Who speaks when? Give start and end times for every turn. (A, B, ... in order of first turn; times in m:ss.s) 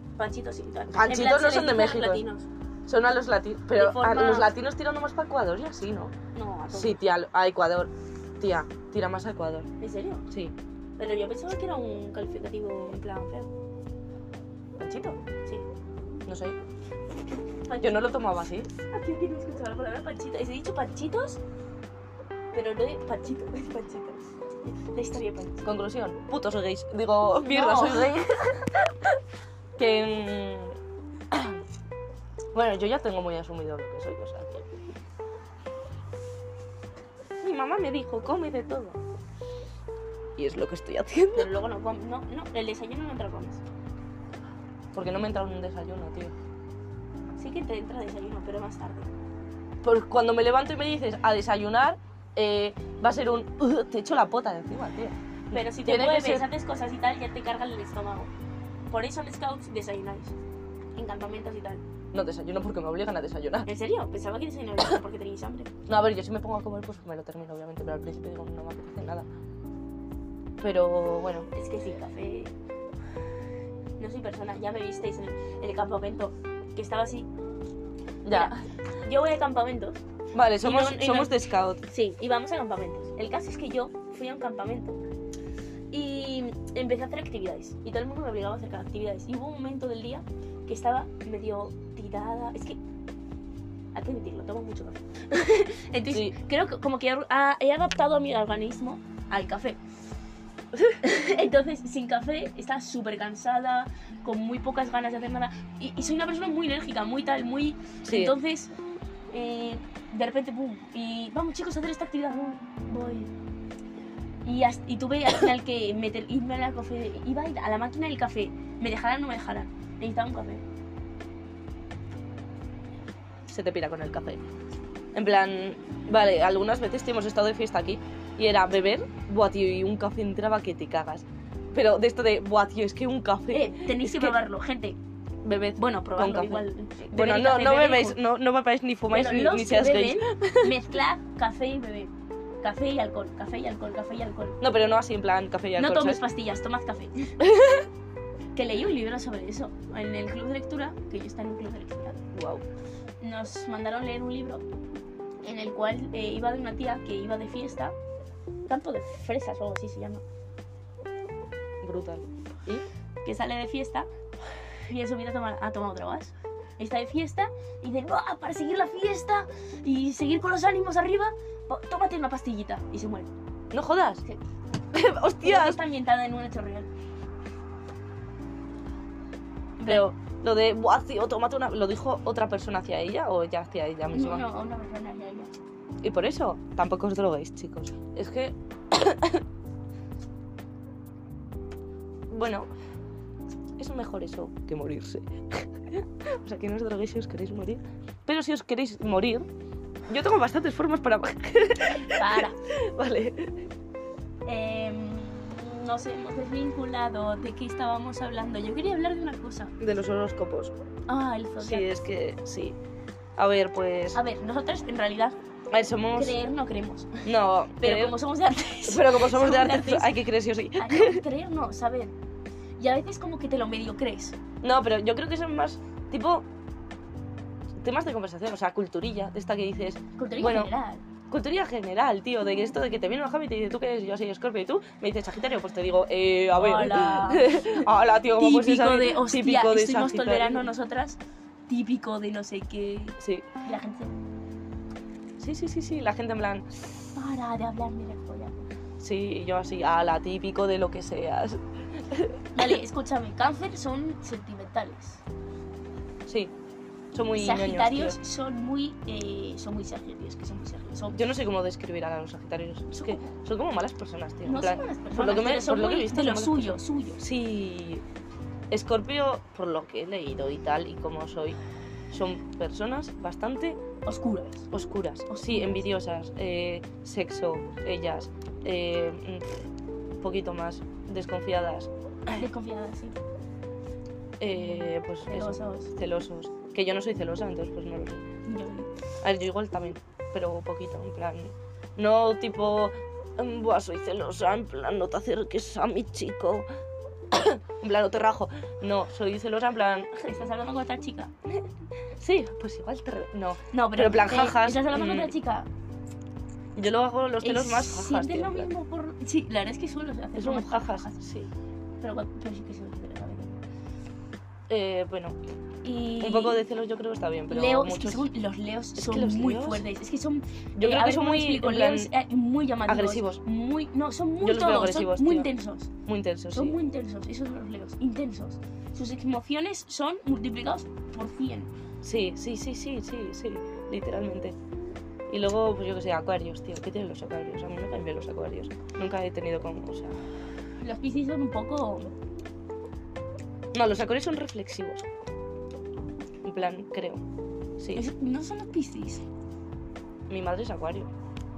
0:00.2-0:02.5 A
0:00.9-0:02.2 B
0:02.9-0:06.2 B
0:03.7-0:04.5 A
0:06.3-0:07.0 A
0:06.7-0:09.7 B
0:09.8-0:10.3 A
0:10.3-0:10.5 B
0:11.0-0:13.5 A
0:14.8-0:15.2 B
0:16.2-0:16.6 B
0:17.7-0:18.1 A
0:17.8-0:18.7 B
0:18.8-0:21.4 A
0:22.5-0:25.7 A
0:25.6-0:29.2 B
0:27.4-0:28.1 A
0:29.8-0:30.8 B
0:31.3-0:31.6 B
0:32.5-0:34.7 B
0:37.4-0:39.0 B
0:40.4-0:41.5 B
0:41.3-0:43.6 A
0:44.9-0:46.4 B
0:47.4-0:49.1 A
0:49.8-0:56.5 B
0:55.5-0:58.3 A
0:58.9-1:00.3 A
1:01.0-1:01.8 A
1:02.1-1:03.7 B
1:03.6-1:05.7 A
1:05.9-1:09.3 B
1:10.6-1:11.5 B
1:11.5-1:12.6 A
1:14.0-1:17.3 A
1:18.2-1:18.6 B
1:18.3-1:20.0 A
1:20.3-1:21.8 B
1:20.6-1:21.3 A
1:21.9-1:25.0 A
1:25.9-1:32.8 A
1:33.9-1:39.8 A
1:41.0-1:48.7 A
1:48.0-1:48.3 B
1:49.3-1:53.3 A
1:54.4-2:00.6 A
2:03.5-2:04.4 B
2:05.1-2:14.4 B
2:13.5-2:15.0 A
2:15.4-2:20.8 B
2:15.8-2:18.2 A
2:19.1-2:24.6 A
2:24.6-2:26.2 B
2:25.8-2:27.4 A
2:27.4-2:27.9 B
2:28.5-2:32.2 A
2:32.3-2:32.6 B
2:33.2-2:34.6 A
2:35.4-2:38.0 A
2:38.7-2:40.2 A
2:41.8-2:42.8 B
2:43.2-2:44.1 A
2:44.8-2:53.3 A
2:53.7-2:54.2 B
2:54.9-2:55.8 B
2:55.4-2:56.9 A
2:59.8-3:00.0 A
2:59.8-3:04.4 B
3:04.1-3:05.5 A
3:06.0-3:09.4 B
3:12.3-3:12.7 B
3:13.8-3:19.5 B
3:20.1-3:23.7 B
3:22.1-3:22.6 A
3:24.4-3:29.7 A
3:29.8-3:30.7 B
3:31.1-3:31.9 A
3:31.6-3:32.8 B
3:33.4-3:34.2 B
3:34.1-3:35.4 A
3:35.7-3:36.4 B
3:36.1-3:37.3 A
3:37.2-3:38.2 B
3:37.8-3:40.2 A
3:38.8-3:41.2 B
3:40.8-3:42.2 A
3:42.8-3:44.4 A
3:44.6-3:46.4 B
3:47.8-3:50.7 B
3:50.2-3:51.0 A
3:51.3-4:00.7 B
3:56.6-3:57.8 A
3:58.4-4:04.2 A
4:03.2-4:03.5 B
4:05.4-4:06.7 B
4:07.1-4:08.7 A
4:09.0-4:12.7 B
4:12.5-4:15.2 A
4:16.2-4:16.5 B
4:17.1-4:18.2 B
4:17.3-4:21.2 A
4:21.1-4:28.0 B
4:22.9-4:23.2 A
4:24.4-4:27.2 A
4:28.7-4:31.6 B
4:32.1-4:33.8 B
4:34.0-4:34.7 A
4:34.7-4:39.7 B
4:35.4-4:35.9 A
4:40.2-4:42.4 B
4:42.4-4:43.2 A
4:44.4-4:48.3 B
4:44.5-4:45.9 A
4:48.4-4:48.9 A
4:49.2-4:56.7 B
4:57.3-5:00.4 B
5:00.2-5:01.3 A
5:01.4-5:05.3 B
5:03.7-5:05.7 A
5:06.8-5:08.7 B
5:07.4-5:11.2 A
5:10.4-5:11.5 B
5:12.0-5:13.6 A
5:14.7-5:15.4 B
5:15.8-5:16.6 A
5:16.2-5:18.2 B
5:17.5-5:25.9 A
5:19.0-5:19.8 B
5:20.8-5:22.1 B
5:22.9-5:23.4 B
5:24.4-5:25.5 B
5:26.0-5:26.8 B
5:26.5-5:31.7 A
5:32.0-5:34.6 B
5:35.3-5:40.2 B
5:40.8-5:42.2 A
5:43.7-5:45.1 B
5:46.4-5:47.2 B
5:47.8-5:48.0 B
5:47.9-5:49.2 A
5:50.3-5:51.1 B